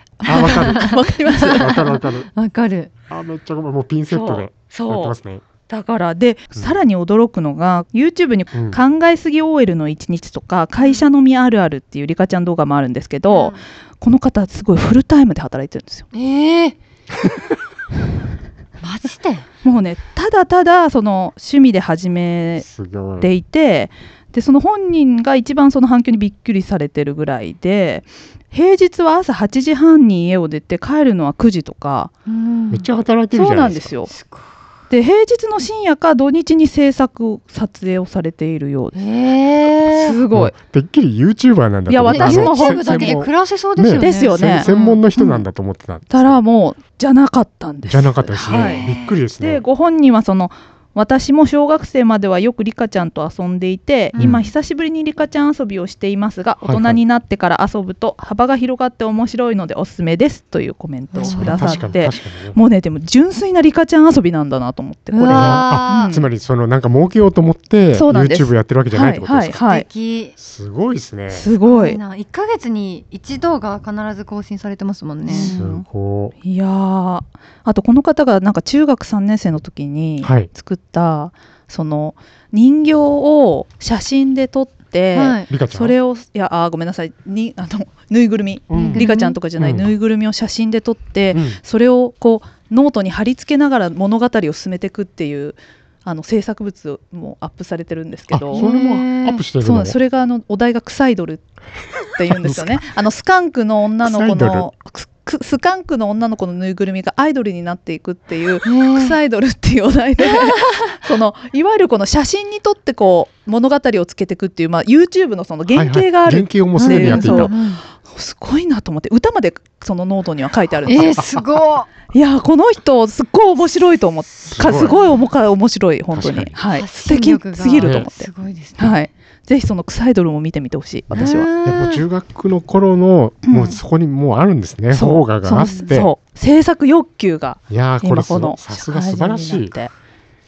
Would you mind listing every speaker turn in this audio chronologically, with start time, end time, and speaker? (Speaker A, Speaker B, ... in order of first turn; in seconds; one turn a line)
Speaker A: 0.2-1.7
Speaker B: 0.2-2.9
Speaker C: 0.2-2.3
Speaker C: 3.1-5.5
Speaker A: 4.1-5.2
Speaker A: 5.7-16.1
Speaker C: 8.5-8.8
Speaker B: 10.8-11.1
Speaker B: 13.3-13.6
Speaker B: 16.1-16.8
Speaker B: 18.8-19.4
Speaker A: 19.6-22.6
Speaker C: 22.6-23.3
Speaker A: 23.2-32.1
Speaker B: 32.2-32.9
Speaker C: 32.7-33.9
Speaker A: 33.3-34.1
Speaker B: 34.1-34.5
Speaker A: 34.9-39.0
Speaker B: 38.9-40.2
Speaker A: 39.9-40.5
Speaker C: 40.3-46.4
Speaker A: 41.9-43.2
Speaker B: 42.1-45.0
Speaker A: 44.0-45.5
Speaker A: 46.1-66.3
Speaker C: 47.9-49.6
Speaker B: 48.4-49.1
Speaker B: 54.1-54.5
Speaker C: 54.2-54.5
Speaker C: 56.6-57.0
Speaker B: 61.1-62.0
Speaker C: 61.2-62.6
Speaker B: 65.1-66.1
Speaker C: 65.2-69.6
Speaker A: 67.9-69.9
Speaker B: 69.6-70.3
Speaker C: 70.4-71.5
Speaker A: 71.3-72.0
Speaker B: 71.7-75.5
Speaker A: 75.2-75.8
Speaker C: 75.3-76.3
Speaker A: 76.4-98.7
Speaker C: 80.2-80.5
Speaker B: 85.1-85.5
Speaker C: 85.5-86.0
Speaker C: 88.7-89.1
Speaker B: 88.7-89.4
Speaker C: 89.6-89.9
Speaker C: 91.3-91.6
Speaker C: 98.3-100.0
Speaker B: 98.5-99.4
Speaker A: 99.6-101.4
Speaker A: 102.1-121.1
Speaker C: 102.4-102.8
Speaker C: 104.0-104.7
Speaker B: 108.6-109.2
Speaker C: 115.7-117.5
Speaker B: 116.8-117.8
Speaker B: 120.9-121.9
Speaker C: 121.0-121.5
Speaker A: 122.1-131.5
Speaker C: 124.5-125.0
Speaker C: 126.1-126.5
Speaker B: 126.7-128.9
Speaker C: 127.8-128.1
Speaker C: 131.1-136.1
Speaker B: 131.1-132.0
Speaker A: 133.5-133.8
Speaker A: 134.9-139.9
Speaker B: 135.6-136.0
Speaker C: 137.7-139.8